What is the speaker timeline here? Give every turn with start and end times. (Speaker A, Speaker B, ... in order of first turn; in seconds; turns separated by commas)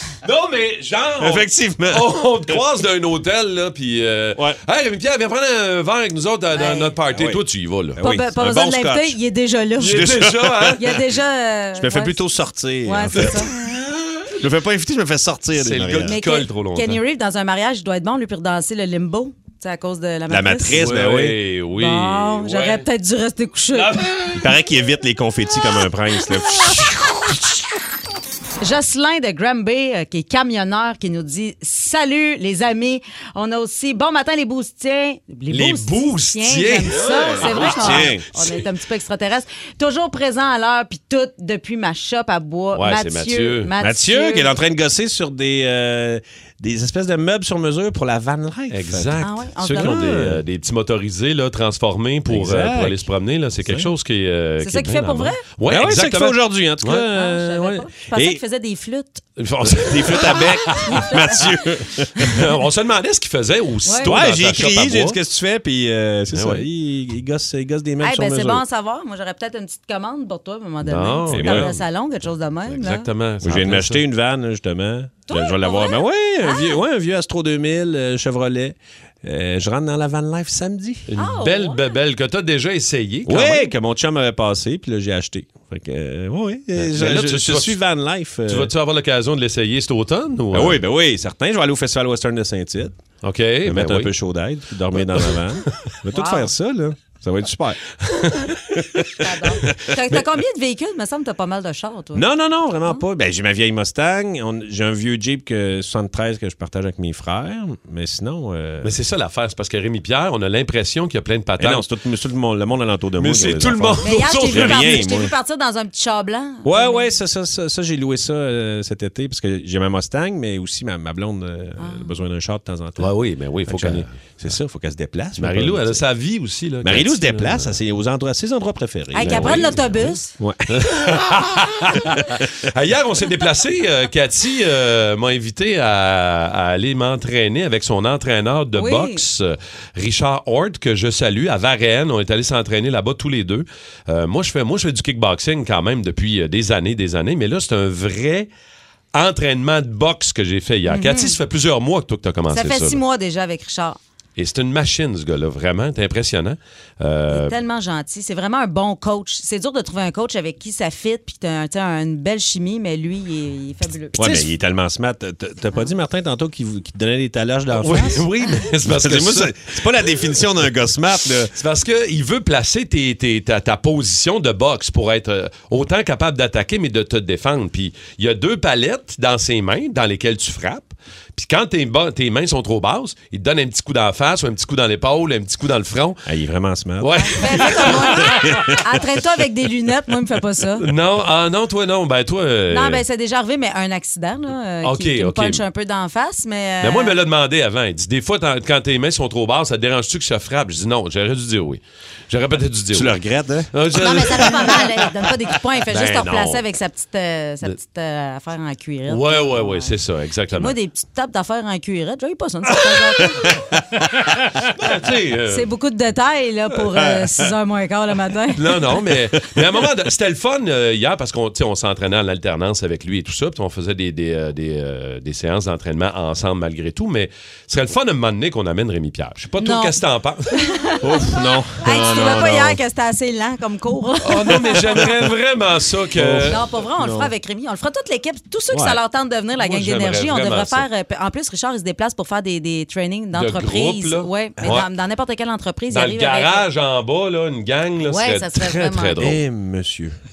Speaker A: 0.2-8.0, Speaker B: 1.2-2.6, Speaker C: 6.5-6.9, Speaker B: 7.1-7.4, Speaker B: 8.0-9.2, Speaker C: 8.0-10.1, Speaker A: 9.8-10.9, Speaker B: 9.8-11.0, Speaker C: 10.7-12.2, Speaker B: 11.7-16.2, Speaker C: 12.8-13.5, Speaker A: 13.1-13.6, Speaker A: 15.5-17.0, Speaker C: 16.1-20.8, Speaker B: 20.3-21.4, Speaker A: 20.7-22.8, Speaker C: 21.8-24.0, Speaker A: 23.7-24.4, Speaker B: 24.3-26.9, Speaker C: 28.6-44.5, Speaker A: 35.5-38.2, Speaker B: 36.9-38.2, Speaker A: 42.7-43.7, Speaker B: 43.8-50.4, Speaker A: 48.7-57.0, Speaker C: 49.2-50.0, Speaker B: 52.3-53.1, Speaker B: 53.6-53.9, Speaker C: 54.6-55.4, Speaker B: 55.7-58.4, Speaker C: 57.1-59.2, Speaker A: 59.4-61.0, Speaker B: 59.6-62.4, Speaker C: 60.8-61.5, Speaker A: 62.2-65.2, Speaker C: 63.9-64.1, Speaker B: 64.0-68.6, Speaker A: 66.3-66.7, Speaker C: 68.0-73.1, Speaker A: 70.8-71.8, Speaker B: 71.3-71.7, Speaker A: 72.7-74.0, Speaker B: 73.4-81.1, Speaker C: 75.3-76.8, Speaker A: 81.1-83.7, Speaker C: 81.2-81.9, Speaker B: 83.2-88.7, Speaker A: 86.8-87.8, Speaker A: 88.5-90.8, Speaker B: 90.5-93.0, Speaker A: 93.2-94.1, Speaker B: 93.6-97.9, Speaker A: 95.0-95.4, Speaker C: 96.1-96.5, Speaker A: 98.0-99.0, Speaker B: 98.7-99.0, Speaker C: 99.2-102.3, Speaker B: 102.1-108.9, Speaker A: 108.8-111.9, Speaker B: 111.6-115.3, Speaker A: 113.2-115.0, Speaker C: 114.0-117.1, Speaker B: 116.6-123.1, Speaker C: 121.8-122.1, Speaker A: 123.0-124.1, Speaker B: 123.7-126.0, Speaker A: 125.4-127.8, Speaker B: 126.8-131.1, Speaker C: 129.1-130.3, Speaker A: 129.3-130.1, Speaker A: 130.7-148.5, Speaker B: 132.2-132.5, Speaker C: 138.7-139.2, Speaker A: 149.1-153.0, Speaker C: 150.8-151.4, Speaker C: 152.5-154.0, Speaker A: 154.4-157.6, Speaker C: 157.3-164.5, Speaker B: 164.2-168.3, Speaker A: 167.7-169.5, Speaker B: 168.8-171.5, Speaker A: 171.5-186.2, Speaker B: 186.2-189.0, Speaker A: 187.0-188.3, Speaker C: 187.1-190.8, Speaker A: 190.8-193.0, Speaker C: 192.7-197.2, Speaker A: 194.8-195.6, Speaker A: 196.8-203.1, Speaker B: 202.9-204.8, Speaker A: 203.7-204.9, Speaker C: 204.0-209.9, Speaker A: 205.9-206.6, Speaker A: 209.1-210.8, Speaker C: 210.5-213.6, Speaker B: 213.4-214.0, Speaker A: 214.8-215.7, Speaker C: 215.5-218.7, Speaker A: 218.6-230.5, Speaker C: 229.6-229.9, Speaker C: 230.5-235.0, Speaker B: 231.0-232.8, Speaker A: 234.2-236.6, Speaker B: 236.1-237.3, Speaker C: 236.5-246.6, Speaker B: 238.7-239.0, Speaker A: 239.6-240.9, Speaker A: 243.3-244.9, Speaker A: 245.9-249.4, Speaker C: 248.0-249.2, Speaker B: 249.2-250.2